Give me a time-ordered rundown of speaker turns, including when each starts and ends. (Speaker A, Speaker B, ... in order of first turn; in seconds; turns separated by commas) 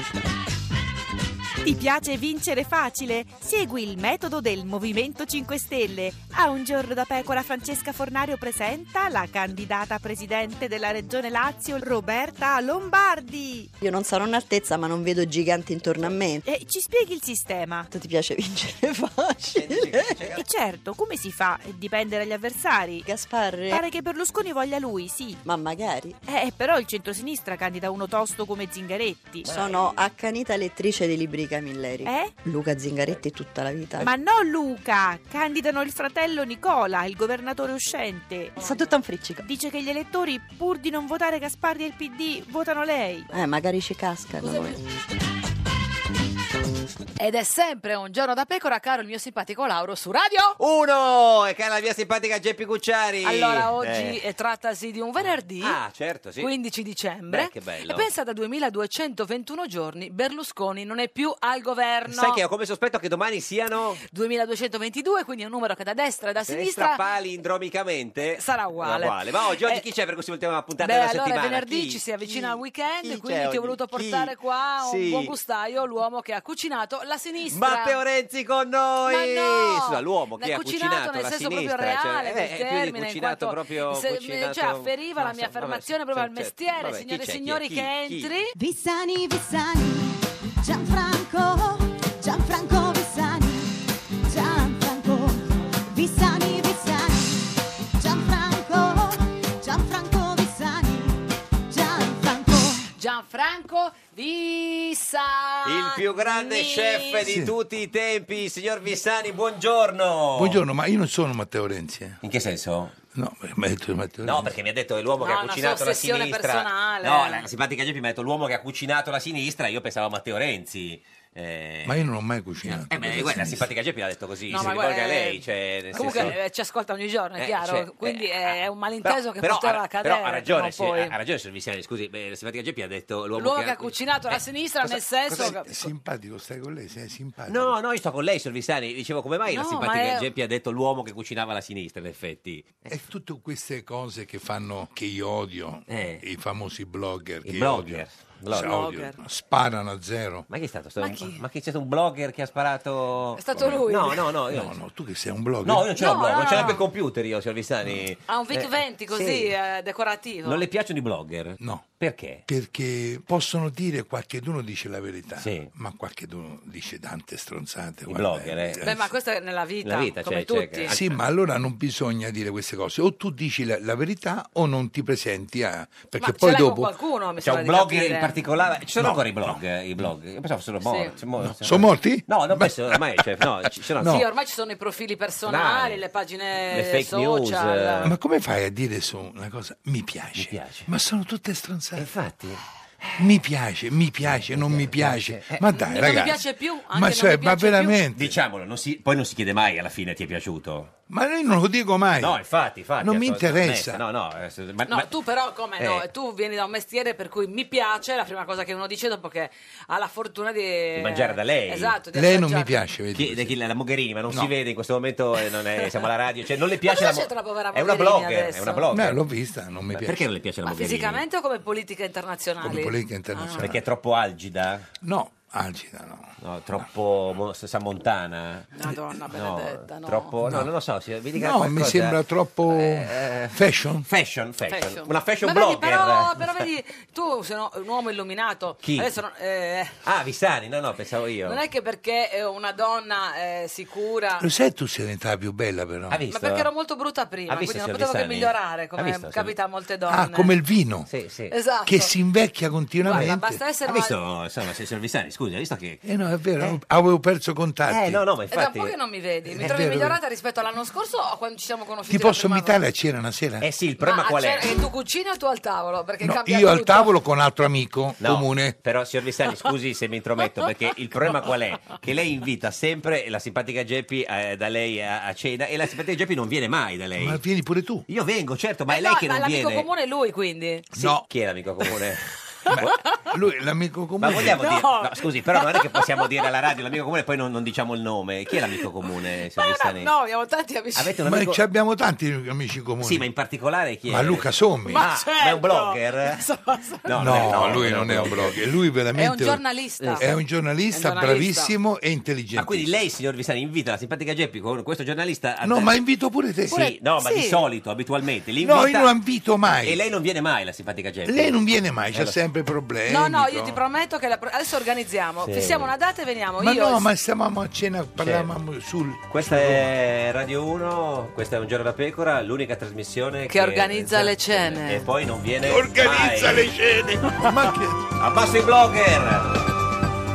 Speaker A: 1.6-13.7, Speaker B: 13.8-16.4, Speaker A: 16.4-17.9, Speaker B: 17.9-20.0, Speaker C: 19.5-20.4, Speaker A: 20.3-23.1, Speaker B: 23.0-23.8, Speaker A: 23.7-25.4, Speaker B: 25.4-26.2, Speaker A: 26.2-29.5, Speaker C: 29.4-30.1, Speaker B: 29.5-34.1, Speaker A: 32.0-32.4, Speaker A: 34.0-38.7, Speaker B: 38.6-39.4, Speaker A: 39.4-43.3, Speaker B: 43.3-44.8, Speaker D: 44.4-44.8, Speaker D: 47.2-50.6, Speaker C: 50.6-54.2, Speaker D: 53.2-55.8, Speaker C: 55.6-56.5, Speaker D: 56.4-62.4, Speaker C: 57.3-58.1, Speaker C: 62.1-64.0, Speaker D: 64.1-67.0, Speaker C: 66.5-75.3, Speaker D: 68.3-69.8, Speaker D: 70.8-78.0, Speaker C: 77.5-88.3, Speaker D: 79.1-88.5, Speaker E: 88.5-102.9, Speaker D: 103.0-107.2, Speaker C: 105.6-110.6, Speaker F: 107.2-107.5, Speaker F: 110.3-112.2, Speaker C: 112.2-112.9, Speaker F: 113.1-114.5, Speaker C: 114.2-122.0, Speaker D: 115.2-117.4, Speaker F: 121.8-123.7, Speaker C: 122.7-126.4, Speaker D: 124.5-125.4, Speaker D: 125.9-131.1, Speaker F: 126.0-126.3, Speaker C: 127.4-134.4, Speaker D: 133.4-135.7, Speaker F: 134.8-137.8, Speaker C: 137.5-142.9, Speaker D: 139.5-140.2, Speaker F: 142.9-150.4, Speaker C: 145.9-146.2, Speaker C: 147.4-148.9, Speaker D: 148.6-149.2, Speaker C: 150.5-154.7, Speaker D: 151.0-151.4, Speaker D: 153.4-154.3, Speaker F: 153.6-153.8, Speaker F: 154.5-155.9, Speaker C: 155.6-159.5, Speaker D: 156.0-156.8, Speaker D: 158.3-160.6, Speaker C: 160.4-162.4, Speaker F: 161.6-161.8, Speaker F: 162.5-169.0, Speaker C: 165.4-165.7, Speaker C: 168.1-168.8, Speaker D: 168.8-170.9, Speaker C: 169.8-171.2, Speaker F: 170.9-176.9, Speaker D: 176.2-178.3, Speaker C: 177.4-184.2, Speaker F: 179.0-179.6, Speaker D: 180.8-181.1, Speaker F: 181.4-183.2, Speaker F: 184.0-184.2, Speaker D: 184.0-188.1, Speaker C: 185.4-186.0, Speaker C: 186.7-188.1, Speaker F: 188.0-192.1, Speaker C: 190.3-190.9, Speaker C: 192.0-193.2, Speaker F: 193.2-198.4, Speaker C: 194.2-195.6, Speaker D: 195.7-198.0, Speaker C: 198.1-200.9, Speaker F: 201.1-202.4, Speaker C: 202.2-205.1, Speaker F: 203.0-204.0, Speaker D: 204.9-212.7, Speaker C: 205.8-206.0, Speaker C: 210.9-211.9, Speaker F: 212.1-213.5, Speaker C: 213.1-219.2, Speaker D: 216.8-218.8, Speaker F: 218.9-220.2, Speaker C: 219.9-221.2, Speaker D: 220.7-223.7, Speaker F: 222.6-223.8, Speaker C: 223.6-224.8, Speaker F: 225.0-226.3, Speaker C: 226.4-232.2, Speaker D: 228.8-230.3, Speaker F: 230.4-230.7, Speaker F: 231.3-234.1, Speaker C: 232.7-236.6, Speaker D: 234.7-239.9, Speaker C: 238.8-239.1, Speaker C: 240.0-241.6, Speaker D: 241.4-244.5, Speaker F: 244.4-246.2, Speaker C: 246.1-246.7, Speaker D: 246.3-250.5, Speaker C: 247.5-249.5, Speaker F: 250.1-251.1, Speaker C: 251.1-251.5, Speaker D: 251.5-252.1, Speaker F: 251.8-253.6, Speaker D: 253.0-254.1, Speaker C: 253.8-256.0, Speaker F: 256.0-258.2, Speaker C: 257.9-258.9, Speaker D: 258.5-262.8, Speaker F: 259.5-260.2, Speaker F: 262.1-263.7, Speaker C: 263.6-264.7, Speaker D: 264.0-267.1, Speaker F: 266.2-268.8, Speaker C: 268.2-277.4, Speaker F: 277.2-278.0, Speaker C: 278.1-279.9, Speaker D: 278.9-281.0, Speaker F: 280.9-281.2, Speaker C: 281.0-282.9, Speaker D: 282.6-283.2, Speaker F: 282.7-284.6, Speaker C: 284.2-290.1, Speaker D: 284.6-286.3, Speaker D: 288.5-288.8, Speaker D: 289.6-291.1, Speaker C: 290.9-291.6, Speaker F: 291.2-293.3, Speaker C: 293.0-296.4, Speaker F: 294.1-295.0, Speaker D: 294.9-297.8, Speaker C: 297.0-298.6, Speaker F: 297.1-299.6, Speaker D: 299.1-300.2, Speaker C: 300.0-300.3, Speaker F: 300.2-302.9, Speaker D: 300.9-301.7, Speaker C: 302.5-305.9, Speaker F: 305.6-306.9, Speaker C: 306.7-309.1, Speaker D: 306.7-307.6, Speaker F: 308.6-310.0, Speaker C: 309.8-311.6, Speaker F: 311.3-313.8, Speaker D: 313.1-317.1, Speaker C: 315.4-315.9, Speaker F: 316.6-319.9, Speaker C: 318.2-318.5, Speaker C: 319.3-326.7, Speaker D: 323.5-325.0, Speaker F: 325.6-328.1, Speaker C: 328.2-329.6